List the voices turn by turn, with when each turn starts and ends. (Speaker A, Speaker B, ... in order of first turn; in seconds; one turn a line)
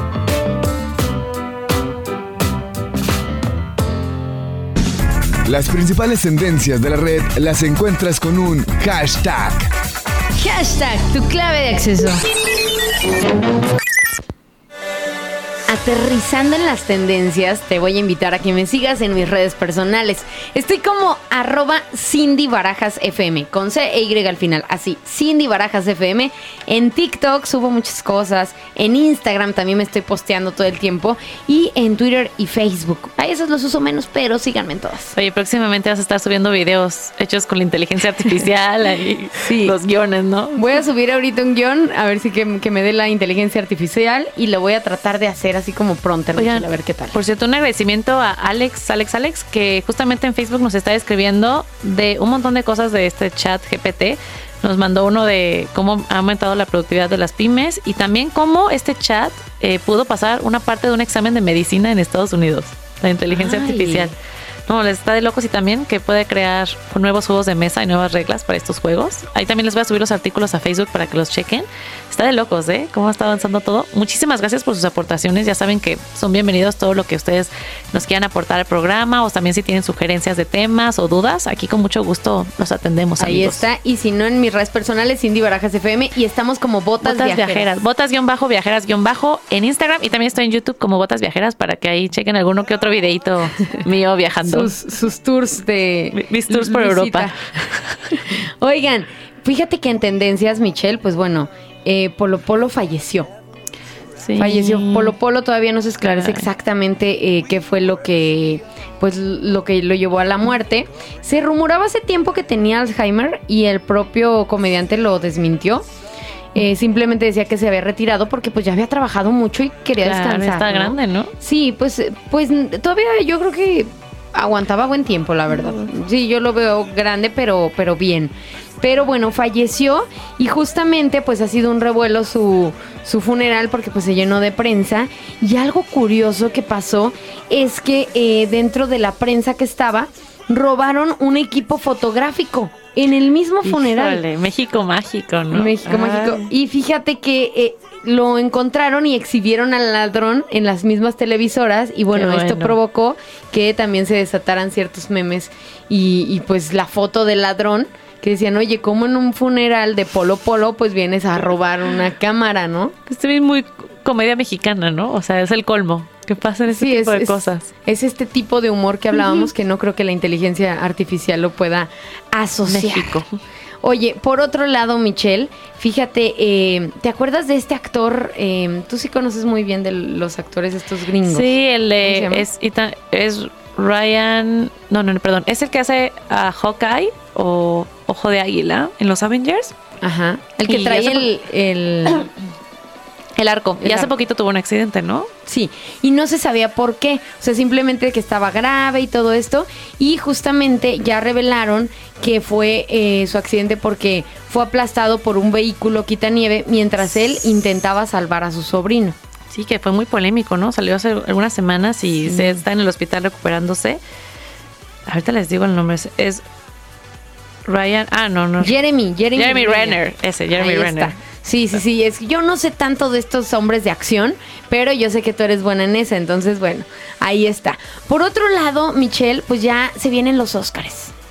Speaker A: 5.5-9.7
Speaker B: 10.4-12.2
Speaker B: 15.7-35.1
Speaker C: 35.1-40.6
Speaker B: 39.4-39.8
Speaker B: 40.6-47.1
Speaker C: 46.4-64.1
Speaker B: 63.3-64.1
Speaker C: 64.7-83.6
Speaker B: 83.2-87.7
Speaker C: 87.0-94.7
Speaker B: 94.4-97.3
Speaker C: 96.2-97.8
Speaker B: 98.6-103.3
Speaker C: 104.2-105.1
Speaker B: 104.4-115.8
Speaker C: 106.0-106.5
Speaker B: 116.5-144.2
Speaker C: 120.0-121.3
Speaker C: 143.6-146.5
Speaker B: 145.5-163.0
Speaker C: 152.1-152.8
Speaker C: 163.1-167.7
Speaker B: 166.7-173.2
Speaker C: 172.7-173.4
Speaker B: 173.8-182.4
Speaker C: 181.2-189.7
Speaker B: 190.0-192.3
Speaker C: 190.7-191.3
Speaker C: 193.4-195.3
Speaker B: 193.8-194.1
Speaker B: 195.5-209.2
Speaker C: 209.5-214.0
Speaker B: 212.2-212.6
Speaker C: 215.1-216.4
Speaker C: 217.7-218.8
Speaker B: 218.6-220.0
Speaker C: 219.3-221.2
Speaker B: 220.6-231.1